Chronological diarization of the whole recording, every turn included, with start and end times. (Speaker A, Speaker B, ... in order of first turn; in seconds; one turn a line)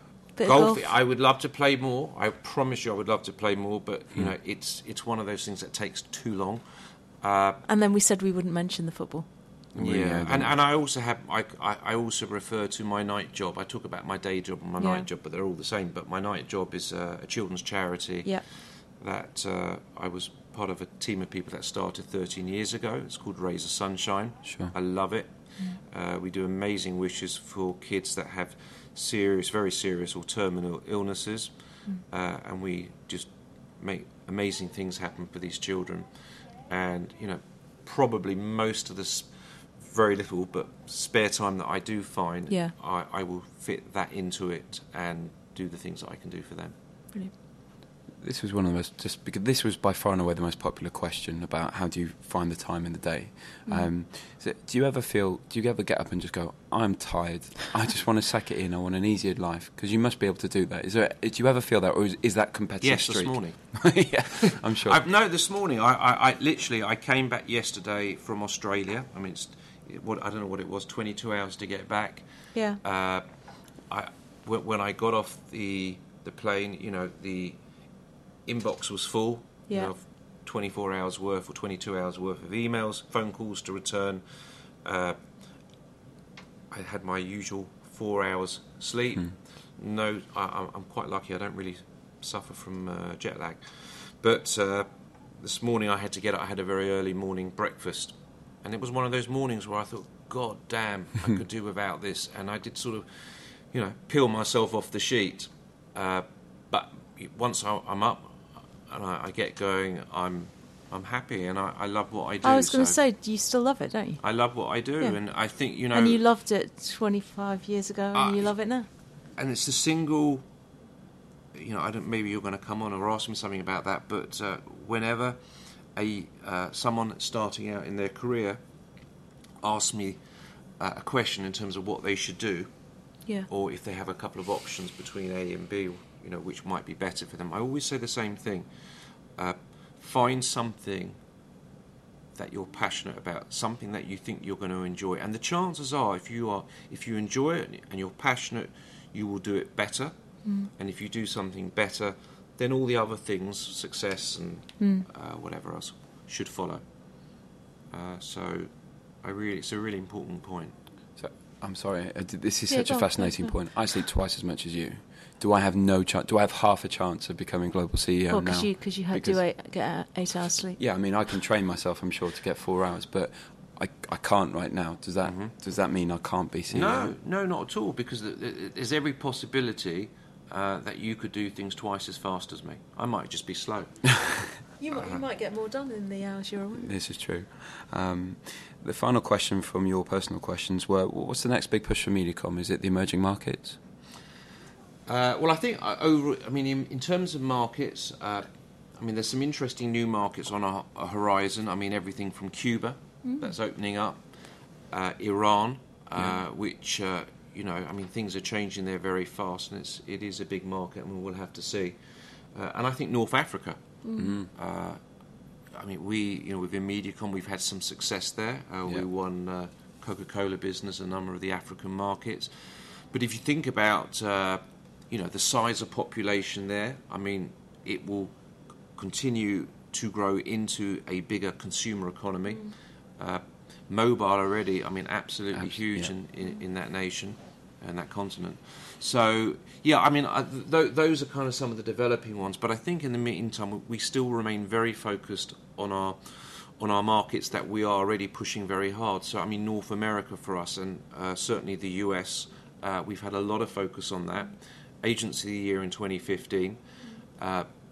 Speaker A: 0.3-0.9
Speaker B: 0.4-6.6
Speaker B: 7.2-7.6
Speaker A: 7.7-9.3
Speaker B: 9.7-46.7
Speaker C: 9.7-10.5
Speaker A: 14.8-15.0
Speaker C: 24.4-24.7
Speaker C: 48.1-65.0
Speaker A: 53.6-53.9
Speaker B: 62.8-73.3
Speaker A: 72.5-72.8
Speaker B: 73.8-77.6
Speaker B: 78.5-84.2
Speaker B: 84.8-85.2
Speaker B: 86.7-113.0
Speaker A: 112.4-118.9
Speaker B: 114.2-116.2
Speaker B: 118.1-118.5
Speaker B: 119.3-120.4
Speaker B: 121.5-128.6
Speaker B: 129.6-130.2
Speaker B: 130.8-132.9
Speaker B: 133.5-138.7
Speaker B: 139.3-141.2
Speaker B: 142.3-160.7
Speaker A: 150.4-150.7
Speaker A: 154.8-155.1
Speaker C: 161.2-169.4
Speaker A: 162.7-163.5
Speaker A: 168.3-170.8
Speaker C: 170.8-177.1
Speaker B: 175.2-175.5
Speaker B: 176.7-183.9
Speaker A: 184.8-186.9
Speaker B: 184.9-185.2
Speaker C: 186.7-193.8
Speaker B: 195.1-204.3
Speaker A: 203.2-203.5
Speaker B: 204.9-212.0
Speaker B: 212.5-214.0
Speaker A: 214.0-214.3
Speaker C: 214.2-214.5
Speaker B: 214.5-215.0
Speaker B: 215.7-228.3
Speaker B: 228.9-256.8
Speaker A: 232.5-232.7
Speaker C: 235.5-236.1
Speaker B: 257.4-257.7